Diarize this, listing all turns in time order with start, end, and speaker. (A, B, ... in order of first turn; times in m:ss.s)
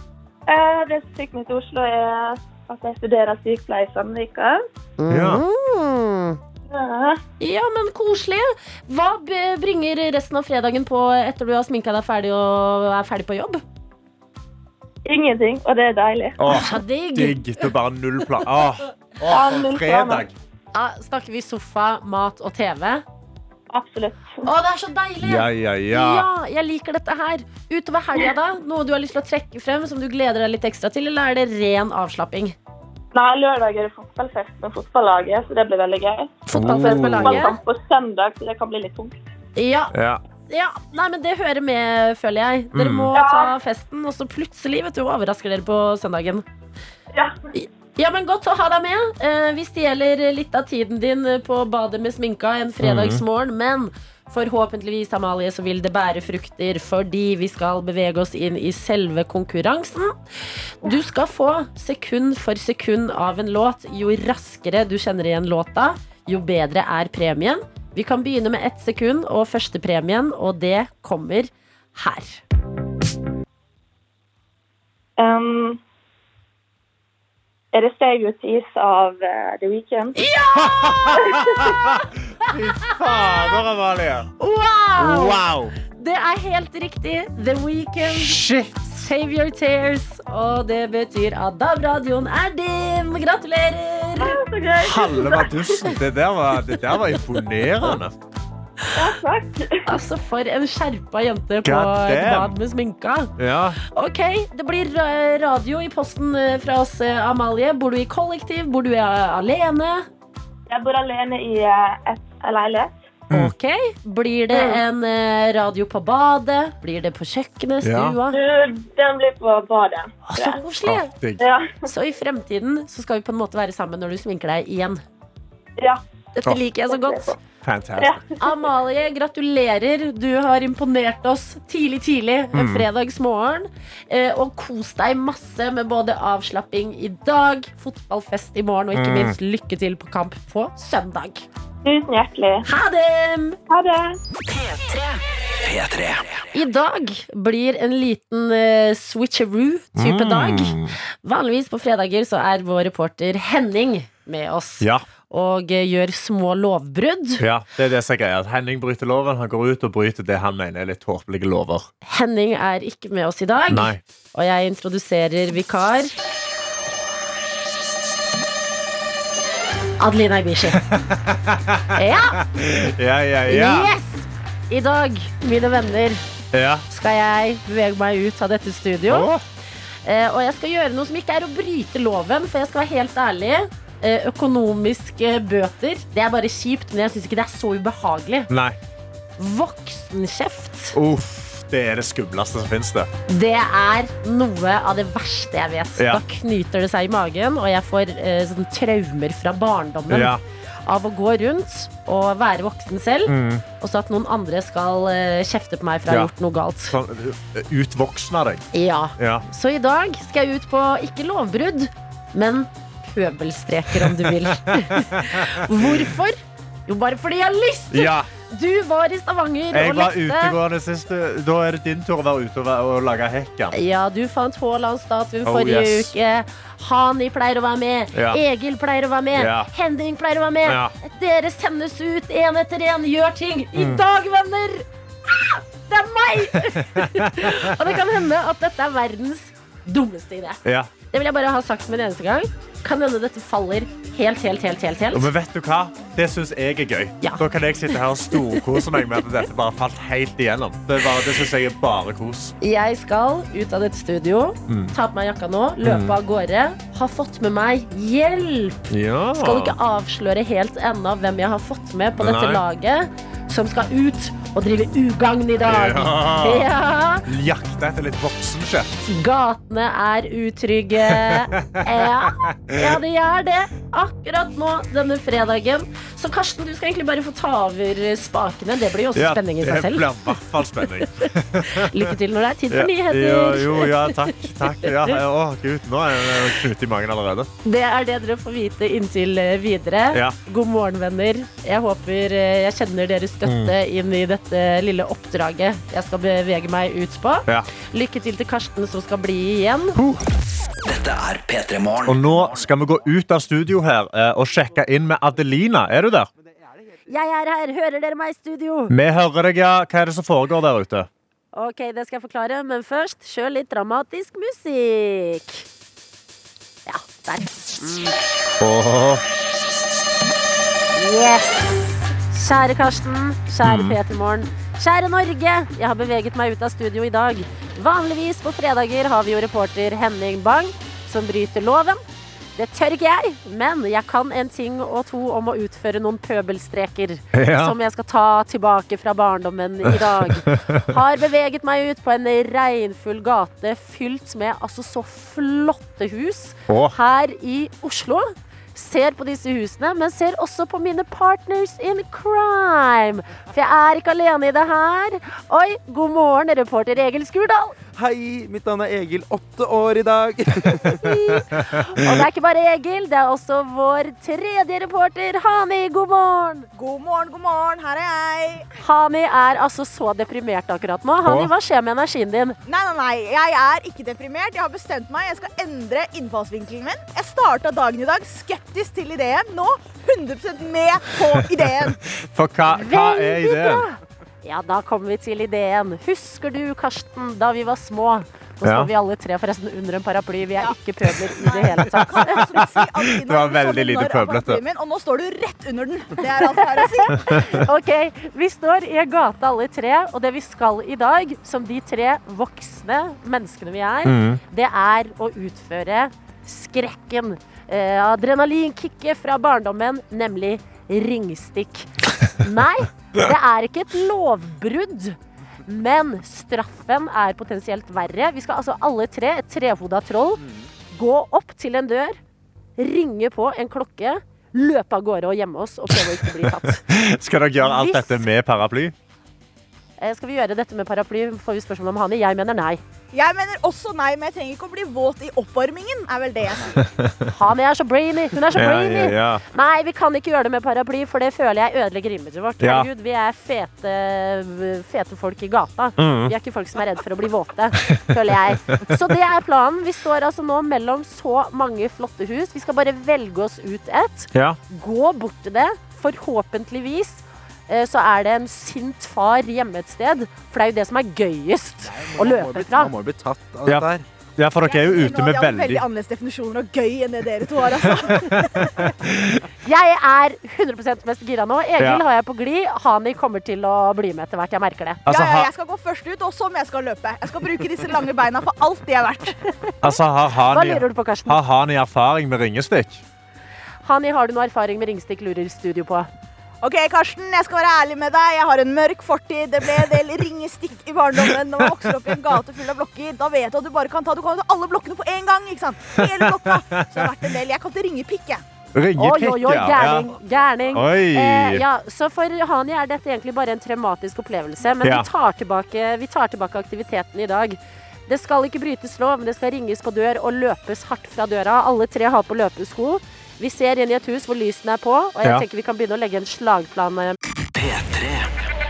0:00.5-0:04.6 A
0:05.0-0:06.4 B
0:05.1-0:05.4 C
0:06.7-0:07.2 A
0:07.4-0:13.6 B
0:15.1-0:16.4 A
0:16.4-0:20.3 C
0:16.5-0:17.7 B
0:19.3-0:20.3 A
0:20.7-0:23.0 B
0:23.7-0:24.4 A
0:24.4-0:32.6 B
0:25.2-0:26.3 C
0:33.1-0:39.2 A
0:36.5-0:37.5 C
0:36.5-0:37.6 B
0:39.6-0:40.0 B
0:39.9-0:40.2 C
0:40.5-0:46.4 B
0:42.7-0:43.1 C
0:43.2-0:43.5 A
0:47.5-1:00.2 B
0:52.8-0:53.2 C
1:00.8-1:12.4 B
1:15.2-1:15.8 A
1:17.7-1:20.2 A
1:20.2-1:21.4 B
1:20.6-1:24.3 C
1:21.2-1:21.8 A
1:22.5-1:23.6 B
1:24.4-1:34.4 B
1:25.0-1:25.7 C
1:28.1-1:28.8 C
1:34.2-1:35.8 A
1:34.8-1:38.2 C
1:39.0-1:39.9 A
1:39.9-1:50.1 B
1:41.6-1:42.6 C
1:43.4-1:43.8 C
1:50.7-1:52.9 A
1:53.3-1:58.4 B
1:54.5-1:54.8 A
1:57.8-1:58.2 C
1:58.3-2:00.6 A
2:00.3-2:01.1 B
2:00.8-2:01.4 C
2:01.4-2:01.8 A
2:01.9-2:05.0 B
2:06.4-2:07.4 B
2:06.9-2:07.4 A
2:07.6-2:08.2 C
2:08.4-2:21.5 B
2:12.5-2:12.9 C
2:18.9-2:19.4 C
2:21.8-2:22.7 A
2:22.6-2:23.6 B
2:23.7-2:24.2 A
2:25.6-2:26.4 D
2:26.5-2:37.4 B
2:30.0-2:31.0 C
2:34.8-2:35.1 C
2:37.4-2:41.9 C
2:42.0-2:46.1 B
2:43.7-2:44.0 C
2:50.0-2:50.8 B
2:50.7-2:53.9 C
2:52.0-2:52.4 B
2:53.5-2:56.2 B
2:56.5-2:56.9 C
2:56.9-2:59.3 B
2:59.1-2:59.4 C
3:00.0-3:08.5 B
3:08.5-3:08.8 C
3:09.4-3:11.0 B
3:10.9-3:13.1 C
3:13.3-3:27.0 B
3:16.0-3:16.2 C
3:20.1-3:20.4 C
3:23.3-3:23.6 C
3:26.9-3:28.6 C
3:28.7-3:40.6 B
3:29.2-3:29.4 C
3:33.9-3:36.1 C
3:37.9-3:38.3 C
3:39.7-3:43.7 C
3:43.7-4:05.3 B
3:45.4-3:46.1 C
3:48.1-3:48.4 C
3:49.4-3:49.7 C
3:50.6-3:50.9 C
3:53.8-3:54.0 C
3:56.5-3:58.2 C
4:00.6-4:00.9 C
4:05.1-4:12.6 C
4:07.2-4:09.2 B
4:12.6-4:27.3 B
4:14.7-4:15.0 C
4:15.8-4:16.2 C
4:18.9-4:19.8 C
4:22.2-4:22.6 C
4:25.7-4:26.7 C
4:27.2-4:29.0 C
4:29.1-4:40.4 B
4:31.0-4:33.0 C
4:39.2-4:42.1 C
4:41.2-4:45.2 B
4:42.7-4:47.5 C
4:47.6-5:00.0 B
4:50.1-4:50.4 C
4:53.4-4:53.8 C
5:00.0-5:00.3 C
5:00.8-5:02.8 D
5:02.0-5:06.3 C
5:06.4-5:07.0 E
5:07.1-5:08.9 B
5:08.9-5:11.1 C
5:11.5-5:15.7 B
5:16.9-5:18.2 B
5:18.6-5:19.2 C
5:21.0-5:32.0 B
5:23.6-5:24.0 C
5:32.6-5:57.8 B
5:37.3-5:37.8 C
5:39.8-5:40.9 C
5:46.7-5:47.0 C
5:58.0-6:00.9 E
6:00.8-6:06.7 B
6:00.9-6:02.2 C
6:06.7-6:08.7 F
6:08.8-6:12.6 B
6:11.2-6:11.5 C
6:12.7-6:22.0 F
6:22.1-6:23.9 C
6:22.7-6:32.4 B
6:28.6-6:28.9 C
6:31.4-6:37.5 F
6:32.2-6:34.6 C
6:36.8-7:02.2 B
6:37.3-6:37.6 C
6:44.0-6:44.4 C
7:02.8-7:06.8 B
7:05.9-7:09.0 C
7:07.6-7:08.3 B
7:10.0-7:12.8 B
7:13.1-7:16.8 F
7:16.8-7:17.3 C
7:17.3-7:42.9 B
7:18.4-7:19.4 C
7:22.6-7:22.9 C
7:26.0-7:26.4 C
7:27.8-7:29.0 C
7:34.3-7:34.6 C
7:41.8-7:44.0 E
7:43.7-7:45.9 C
7:44.6-7:48.9 F
7:47.9-7:49.5 C
7:49.6-7:55.0 B
7:51.8-7:52.0 C
7:55.1-7:55.5 C
7:55.1-7:59.4 F
7:59.8-8:03.0 C
7:59.8-8:01.4 B
8:03.8-8:06.1 B
8:06.6-8:18.4 F
8:11.2-8:12.0 C
8:16.0-8:17.1 C
8:18.7-8:20.2 C
8:19.0-8:37.2 B
8:20.7-8:21.6 C
8:24.8-8:25.1 C
8:37.5-8:38.3 D